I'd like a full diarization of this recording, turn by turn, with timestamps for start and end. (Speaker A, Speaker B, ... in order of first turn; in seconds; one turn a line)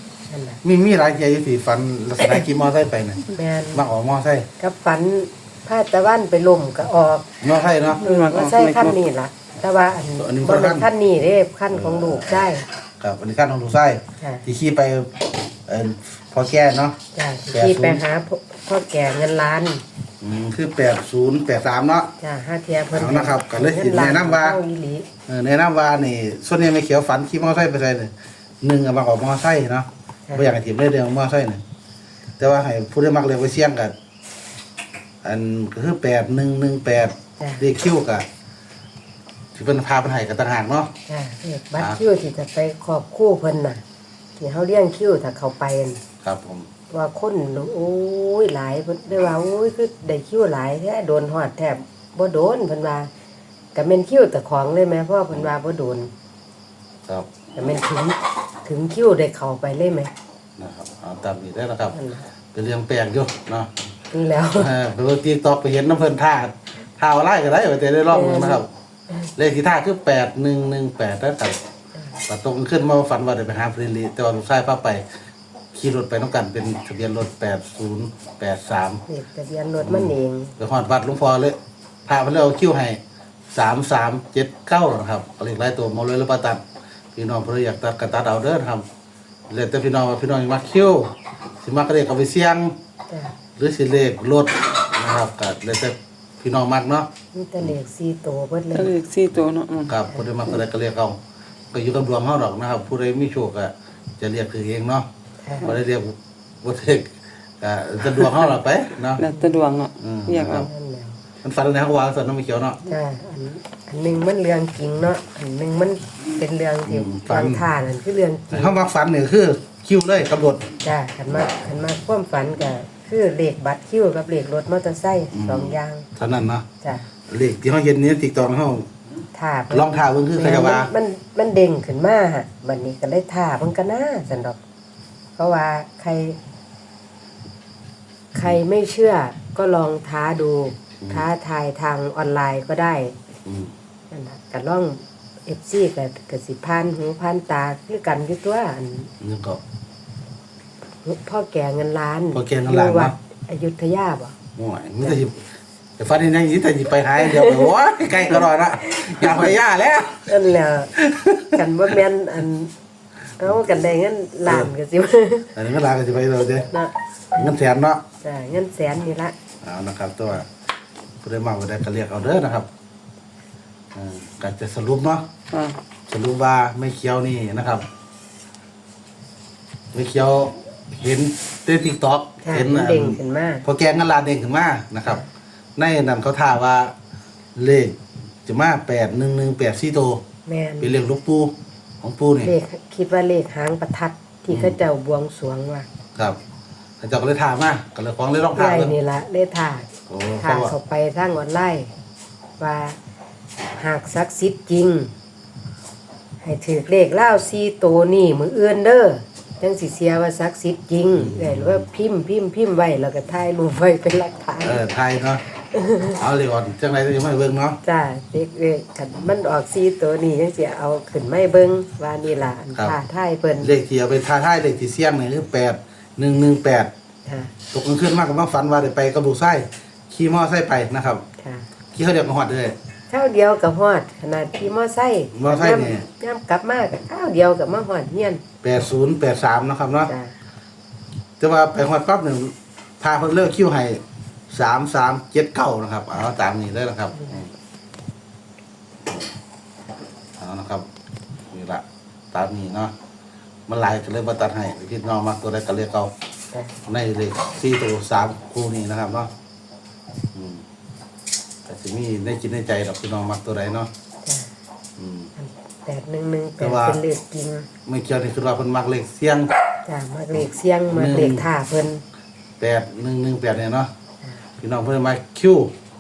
Speaker A: 0.3-0.6
Speaker B: 0.6-4.5
Speaker A: 3.4-3.8
Speaker A: 4.6-7.3
Speaker B: 7.4-8.0
Speaker C: 8.0-9.0
Speaker A: 8.0-12.7
Speaker B: 10.2-10.9
Speaker B: 11.7-18.0
Speaker A: 14.2-14.4
Speaker A: 17.1-19.8
Speaker B: 20.2-22.1
Speaker A: 22.2-25.1
Speaker B: 22.9-24.6
Speaker B: 25.3-31.6
Speaker A: 30.3-30.5
Speaker B: 32.4-33.9
Speaker B: 35.2-38.3
Speaker A: 37.4-37.6
Speaker B: 39.5-40.9
Speaker A: 41.1-43.8
Speaker A: 44.4-46.0
Speaker B: 46.2-46.7
Speaker A: 46.9-53.1
Speaker A: 53.7-56.1
Speaker B: 57.1-57.8
Speaker A: 57.6-60.1
Speaker B: 60.6-62.0
Speaker A: 61.9-62.3
Speaker B: 62.5-63.8
Speaker A: 64.1-64.7
Speaker B: 64.6-68.7
Speaker A: 68.1-68.6
Speaker B: 69.4-71.6
Speaker B: 72.2-75.0
Speaker B: 75.7-79.0
Speaker A: 79.1-80.5
Speaker B: 79.8-83.0
Speaker B: 83.5-86.6
Speaker B: 87.2-88.8
Speaker B: 89.5-92.8
Speaker A: 93.1-93.4
Speaker B: 93.6-97.1
Speaker A: 97.3-99.0
Speaker C: 98.7-100.0
Speaker B: 99.9-101.2
Speaker B: 101.7-105.1
Speaker A: 105.4-105.7
Speaker B: 105.6-109.2
Speaker C: 109.2-110.7
Speaker B: 110.0-110.7
Speaker A: 110.5-111.2
Speaker B: 111.4-112.8
Speaker A: 112.8-118.8
Speaker B: 116.9-117.7
Speaker B: 118.5-120.7
Speaker A: 120.8-126.1
Speaker B: 125.3-126.7
Speaker A: 126.8-127.1
Speaker B: 127.3-128.9
Speaker A: 129.3-134.6
Speaker B: 129.7-130.9
Speaker A: 135.4-136.4
Speaker A: 138.3-143.2
Speaker B: 141.0-141.3
Speaker B: 143.5-143.7
Speaker A: 144.1-149.1
Speaker B: 149.2-149.6
Speaker A: 151.1-154.3
Speaker B: 152.3-153.2
Speaker B: 154.6-155.4
Speaker B: 156.0-160.3
Speaker A: 157.2-157.7
Speaker A: 158.3-159.4
Speaker A: 160.3-160.9
Speaker B: 161.0-161.5
Speaker A: 161.5-162.7
Speaker A: 163.4-165.5
Speaker B: 164.5-164.7
Speaker B: 165.6-166.7
Speaker A: 166.7-167.5
Speaker B: 167.3-168.0
Speaker A: 168.2-169.3
Speaker B: 169.6-170.5
Speaker B: 171.2-172.7
Speaker B: 173.9-175.3
Speaker C: 175.5-175.8
Speaker B: 176.1-177.9
Speaker B: 179.9-185.2
Speaker A: 182.4-183.6
Speaker B: 185.8-186.9
Speaker B: 187.6-190.2
Speaker A: 190.5-191.0
Speaker B: 190.8-192.5
Speaker A: 192.4-195.9
Speaker B: 194.5-194.8
Speaker B: 197.0-199.0
Speaker A: 198.6-201.9
Speaker B: 200.1-200.7
Speaker A: 202.6-203.0
Speaker A: 203.8-205.1
Speaker A: 206.4-214.8
Speaker B: 211.1-211.8
Speaker B: 214.6-215.4
Speaker A: 215.6-216.2
Speaker B: 216.2-217.8
Speaker A: 217.8-223.8
Speaker B: 223.6-226.9
Speaker A: 227.3-227.5
Speaker B: 227.7-231.2
Speaker A: 231.4-231.7
Speaker B: 231.9-232.8
Speaker A: 233.1-238.4
Speaker B: 235.3-236.1
Speaker B: 238.6-240.1
Speaker A: 240.1-240.3
Speaker B: 241.4-247.5
Speaker A: 247.2-247.4
Speaker B: 250.4-250.9
Speaker B: 251.5-252.9
Speaker B: 253.7-256.1
Speaker B: 256.9-259.3
Speaker B: 260.3-260.6
Speaker B: 261.7-263.9
Speaker A: 264.2-264.5
Speaker B: 265.0-265.3
Speaker A: 265.4-267.7
Speaker B: 266.6-267.0
Speaker B: 267.9-269.5
Speaker A: 269.9-272.0
Speaker B: 270.9-271.5
Speaker B: 272.6-273.9
Speaker B: 274.6-275.7